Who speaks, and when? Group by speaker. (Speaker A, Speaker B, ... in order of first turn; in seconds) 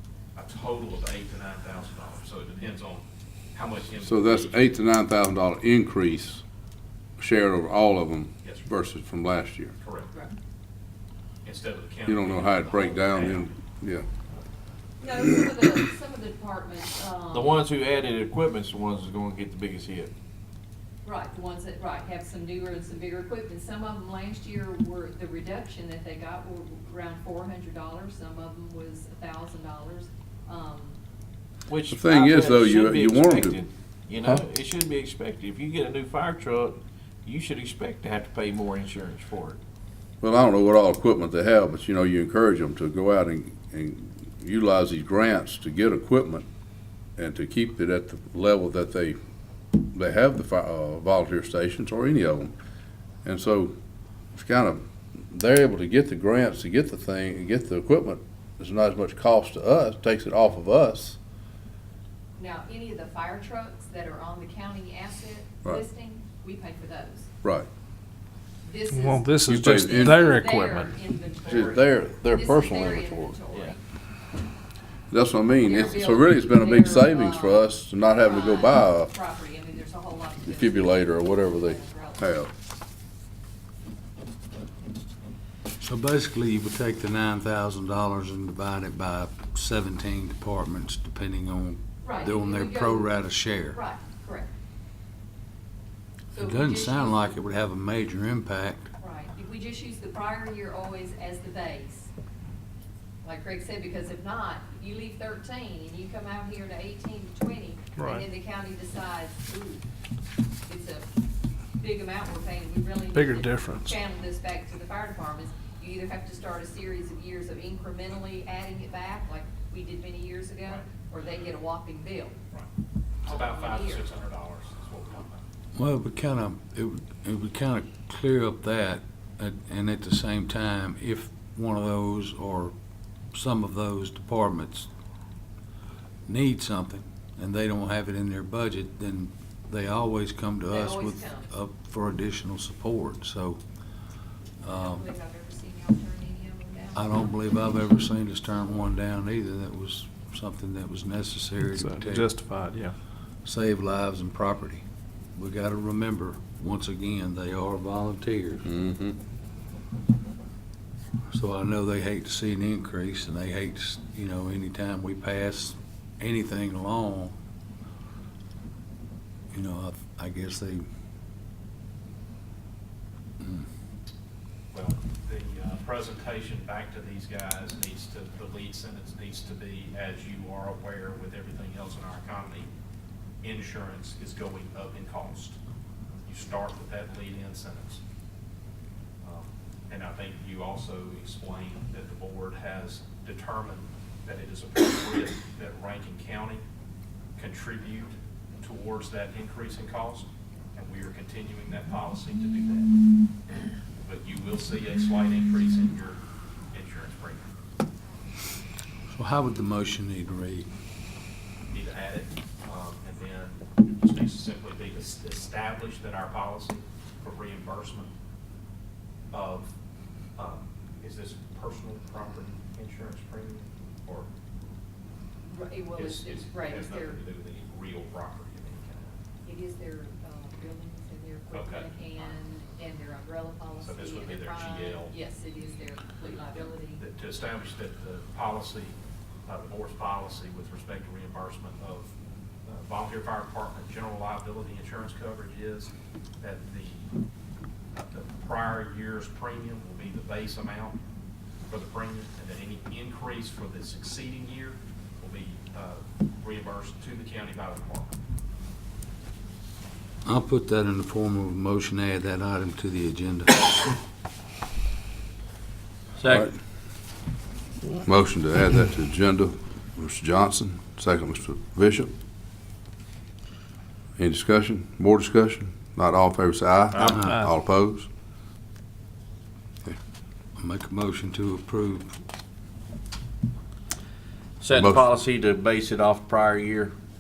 Speaker A: 0.3-4.8, 9.8-10.1, 11.4-13.5, 120.7-121.5, 123.2-125.4, 174.7-182.7, 183.4-185.6, 186.3-188.0, 189.2-196.6, 197.4-202.9, 204.1-207.5, 211.7-218.1, 219.3-219.7, 220.4-224.3, 226.0-229.2, 231.5-232.4, 233.8-235.1, 237.0-242.1, 242.7-247.1, 247.9-251.0, 251.7-258.1
Speaker B: 4.0-6.4, 7.2-9.7, 12.1-14.1, 31.9-33.6, 40.2-46.5, 47.2-49.2, 49.9-52.5, 53.2-53.7, 54.3-61.2, 67.4-67.7, 69.5-70.3, 71.5-73.4, 75.1-79.1, 80.4-82.5, 158.7-159.2, 266.2-266.5, 268.0-272.1, 274.2-278.1, 284.7-285.1
Speaker C: 15.0-17.6, 21.0-31.0, 62.4-67.3, 68.6-73.8, 75.6-82.2, 92.0-94.5, 96.3-97.3, 99.0-102.1, 103.2-109.8, 110.7-111.1, 111.8-122.3, 123.2-124.1, 140.7-141.5, 144.6-147.4, 225.5-227.2, 229.4-237.0
Speaker D: 17.3-20.1, 31.7-39.6, 276.9-277.2, 284.6-286.9
Speaker E: 68.9-70.9, 108.0-108.2, 113.1-113.9, 151.8-152.9, 277.2-277.5
Speaker F: 85.8-93.8, 96.4-98.9, 125.7-132.7, 133.3-134.9, 136.3-143.6, 144.6-145.1, 146.9-152.4, 153.4-154.8, 155.4-158.7, 161.3-167.4, 169.5-170.9, 173.4-173.7, 209.1-210.7, 260.2-263.9, 277.1-277.3, 280.6-282.2